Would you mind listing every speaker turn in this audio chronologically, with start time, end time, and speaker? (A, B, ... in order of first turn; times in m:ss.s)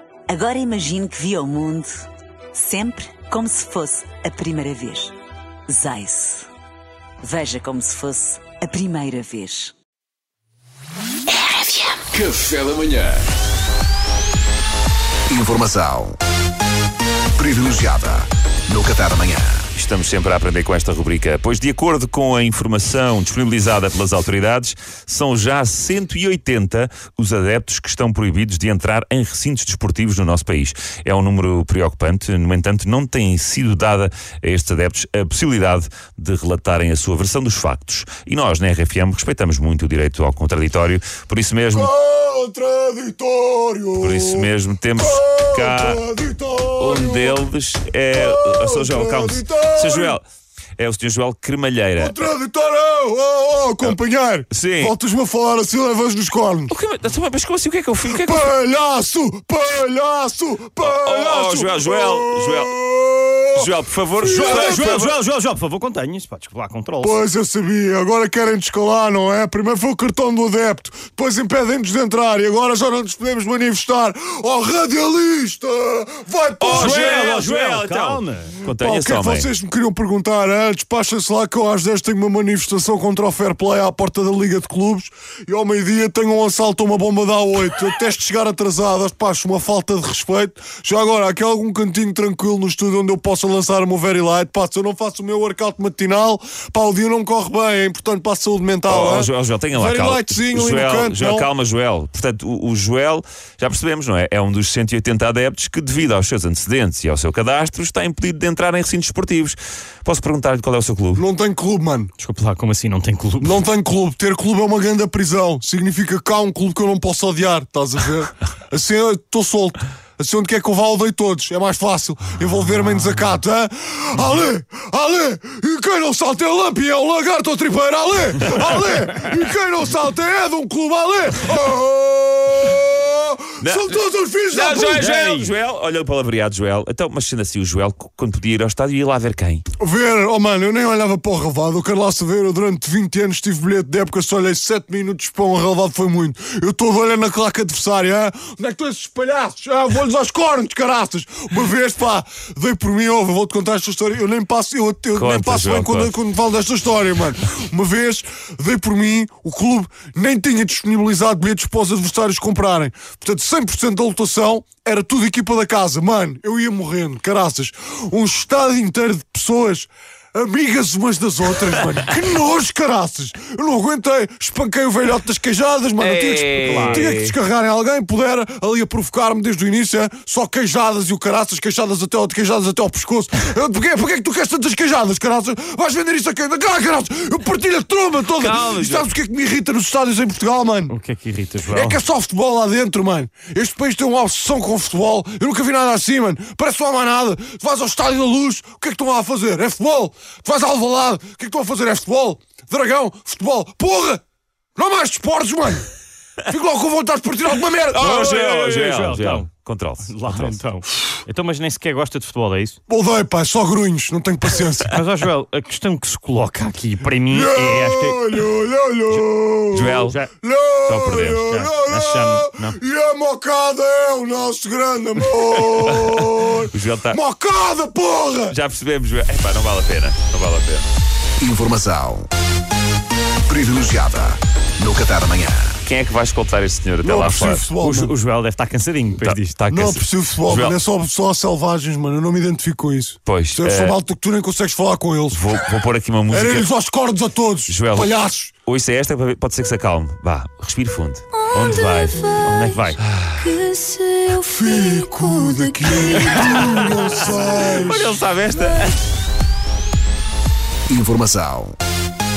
0:00.3-0:05.2 A
0:05.7-0:06.5 A
0:07.2-0:09.8 A
0:11.5-0:11.9 A
0:15.3-0:16.2 B
0:17.4-0:19.7 B
0:19.8-0:41.9 C
0:41.7-0:47.4 D
0:44.0-0:46.0 C
0:46.8-0:50.2 C
0:48.1-0:50.2 D
0:50.8-0:52.2 C
0:52.0-0:56.7 D
0:54.5-0:55.0 C
0:56.7-0:58.5 C
0:58.1-1:05.0 D
1:00.8-1:02.7 C
1:03.5-1:05.1 C
1:04.3-1:07.2 E
1:07.0-1:17.4 D
1:16.6-1:19.5 C
1:16.7-1:18.6 E
1:18.6-1:41.5 D
1:38.9-1:51.2 C
1:51.2-1:52.1 D
1:52.2-1:53.6 E
1:53.4-2:15.4 D
2:13.6-2:14.0 C
2:14.5-2:19.6 C
2:19.8-3:10.9 D
2:35.1-2:36.1 C
2:56.0-2:57.3 C
2:56.6-2:57.0 E
3:08.3-3:09.1 C
3:10.9-3:12.0 E
3:11.7-3:24.2 D
3:24.8-3:25.9 D
3:26.5-3:28.2 D
3:27.9-3:30.6 C
3:28.0-3:29.5 E
3:30.0-3:32.8 E
3:32.9-3:35.0 D
3:34.9-3:38.3 E
3:37.3-3:48.6 D
3:39.7-3:40.2 C
3:40.0-3:40.3 E
3:40.9-3:41.5 C
3:41.5-3:42.8 E
3:45.9-3:47.2 C
3:48.5-3:50.9 C
3:51.4-3:52.3 B
3:53.5-3:55.8 B
3:55.8-3:57.7 C
3:57.0-3:58.2 D
3:57.8-3:59.9 E
3:59.2-4:00.8 C
3:59.7-4:05.5 D
4:03.2-4:04.0 C
4:05.3-4:06.7 C
4:06.3-4:08.5 D
4:07.7-4:13.8 C
4:11.9-4:13.0 E
4:14.3-4:18.1 D
4:16.2-4:16.9 C
4:17.4-4:19.0 C
4:20.9-4:21.8 B